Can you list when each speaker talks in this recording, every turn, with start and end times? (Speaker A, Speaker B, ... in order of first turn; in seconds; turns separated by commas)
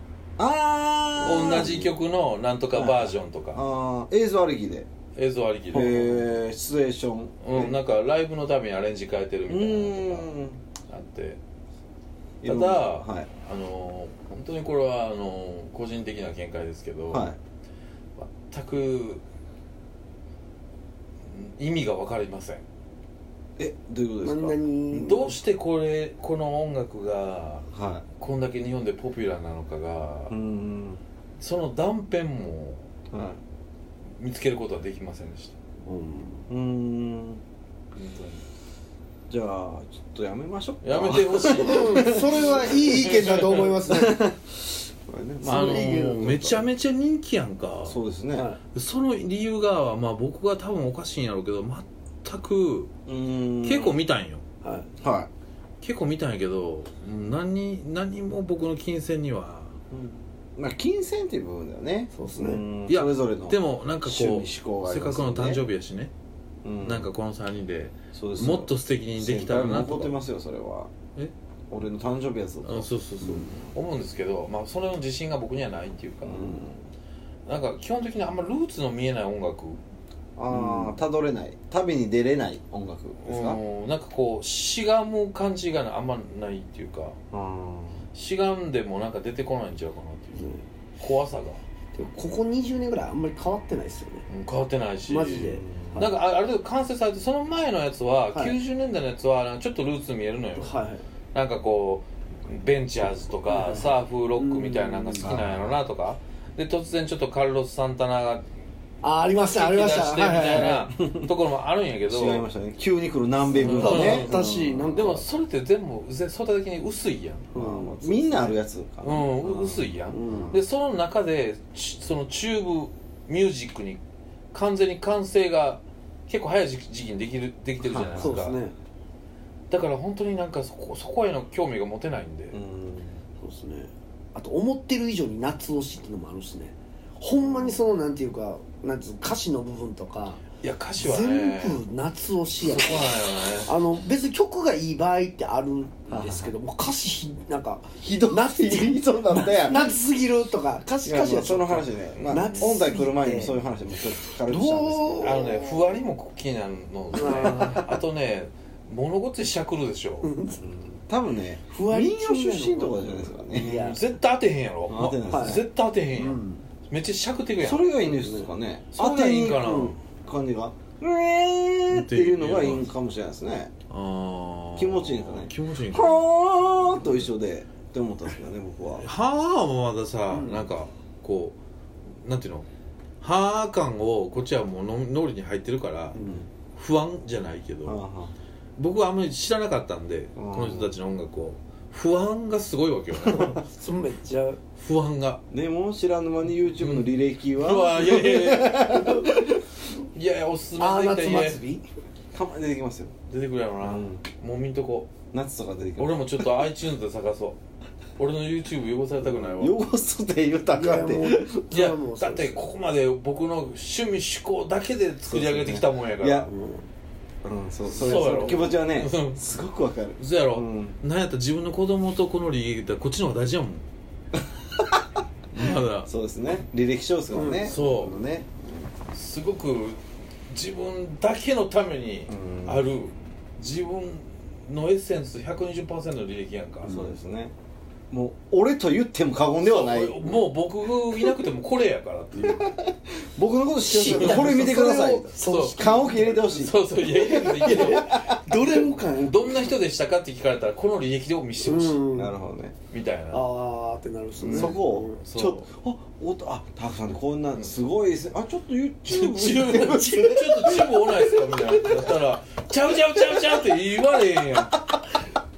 Speaker A: 0.4-1.9, Speaker B: 1.2-3.6, Speaker A: 2.7-4.9, Speaker B: 5.2-6.3, Speaker A: 5.7-7.8, Speaker B: 7.4-10.3, Speaker A: 9.5-10.6, Speaker B: 10.9-11.4, Speaker A: 12.4-13.3, Speaker B: 12.4-17.4, Speaker A: 17.1-17.4, Speaker B: 18.2-19.2, Speaker B: 21.2-22.6, Speaker A: 23.6-24.6, Speaker C: 24.2-25.4, Speaker B: 24.9-27.7, Speaker A: 27.7-28.1, Speaker B: 28.2-30.3, Speaker A: 30.3-31.0, Speaker B: 31.4-32.8, Speaker A: 33.1-33.4, Speaker B: 34.2-35.6, Speaker C: 35.8-36.5, Speaker A: 36.5-37.4, Speaker B: 37.9-38.4, Speaker A: 39.3-42.9, Speaker B: 40.8-43.8, Speaker C: 41.5-44.3, Speaker A: 43.9-46.1, Speaker C: 45.4-46.6, Speaker B: 45.4-48.0, Speaker A: 47.9-48.5, Speaker C: 48.4-48.6, Speaker B: 48.7-52.9, Speaker A: 53.1-54.0, Speaker B: 53.6-54.4, Speaker C: 54.6-54.9, Speaker A: 55.0-55.3, Speaker B: 55.8-59.8, Speaker A: 59.9-65.6, Speaker C: 62.1-62.6, Speaker B: 62.9-66.1, Speaker A: 66.6-67.1, Speaker B: 66.8-70.2, Speaker A: 68.1-70.9, Speaker A: 71.7-73.5, Speaker B: 72.6-76.7, Speaker A: 76.2-76.9, Speaker B: 77.5-79.8, Speaker A: 80.4-83.6, Speaker B: 80.5-80.9, Speaker B: 83.2-87.2, Speaker A: 87.3-88.0, Speaker B: 88.1-91.6, Speaker C: 90.3-90.6, Speaker C: 91.9-94.2, Speaker B: 94.3-100.7, Speaker C: 95.1-96.1, Speaker A: 95.3-96.1, Speaker C: 100.5-101.0, Speaker B: 101.3-108.5, Speaker C: 103.5-105.3, Speaker A: 105.2-105.7, Speaker C: 109.0-110.9, Speaker B: 109.5-112.5, Speaker A: 110.9-111.3, Speaker A: 112.1-114.9, Speaker C: 113.5-115.2, Speaker B: 113.5-117.5, Speaker C: 117.5-118.5, Speaker A: 117.5-120.6, Speaker B: 119.0-124.0, Speaker C: 120.1-120.6, Speaker B: 124.5-128.6, Speaker C: 127.9-128.8, Speaker A: 127.9-128.4, Speaker B: 129.7-132.6, Speaker A: 132.5-133.2, Speaker C: 133.4-140.4, Speaker B: 140.6-141.8, Speaker C: 141.0-153.6, Speaker B: 142.6-143.7, Speaker A: 146.1-146.5, Speaker A: 148.0-149.9, Speaker A: 151.0-155.4, Speaker B: 152.2-152.6, Speaker C: 154.5-155.9, Speaker B: 155.2-160.3, Speaker C: 157.1-157.9, Speaker A: 157.2-158.0, Speaker C: 160.2-160.6, Speaker A: 160.6-163.8, Speaker C: 161.7-164.0, Speaker B: 163.5-167.9, Speaker A: 164.9-165.7, Speaker C: 165.3-166.7, Speaker A: 167.6-173.7, Speaker C: 168.1-168.5, Speaker B: 168.9-170.0, Speaker C: 169.6-170.0, Speaker B: 171.9-172.9, Speaker B: 173.9-176.2, Speaker A: 174.8-179.1, Speaker B: 179.0-181.6, Speaker C: 180.3-180.7, Speaker B: 182.2-182.7, Speaker B: 183.2-186.2, Speaker C: 186.1-186.5, Speaker A: 186.2-186.5, Speaker B: 186.8-188.0, Speaker A: 187.8-188.3, Speaker B: 188.8-193.6, Speaker A: 190.4-190.9, Speaker A: 193.2-193.5, Speaker C: 193.7-194.6, Speaker B: 194.8-195.4, Speaker A: 195.5-199.6, Speaker B: 196.8-199.2, Speaker C: 198.9-199.3, Speaker B: 200.1-201.6, Speaker C: 200.8-201.8, Speaker A: 202.3-203.1, Speaker B: 203.3-205.1, Speaker A: 203.8-204.2, Speaker A: 205.3-206.6, Speaker B: 206.0-207.6, Speaker B: 208.2-209.8, Speaker A: 209.2-211.5, Speaker C: 210.7-212.6, Speaker B: 211.7-216.5, Speaker A: 215.3-216.5, Speaker C: 216.5-216.9, Speaker A: 217.4-221.0, Speaker B: 217.9-219.4, Speaker C: 218.0-218.8, Speaker B: 220.2-223.8, Speaker B: 225.5-226.1, Speaker A: 226.0-228.5, Speaker C: 227.3-227.7, Speaker B: 227.4-228.3, Speaker B: 229.1-237.0, Speaker A: 232.3-232.8, Speaker C: 236.8-237.2, Speaker A: 236.8-237.5, Speaker A: 238.1-240.5, Speaker B: 239.6-242.8, Speaker A: 242.4-248.6, Speaker C: 243.8-246.5, Speaker B: 244.0-244.6, Speaker B: 245.3-248.1, Speaker C: 247.1-249.6, Speaker B: 249.2-252.1, Speaker C: 251.6-252.3, Speaker A: 252.1-252.8, Speaker B: 252.9-253.4, Speaker C: 253.3-255.2, Speaker B: 254.4-255.7, Speaker A: 254.5-260.3, Speaker B: 259.1-264.9, Speaker C: 259.7-262.1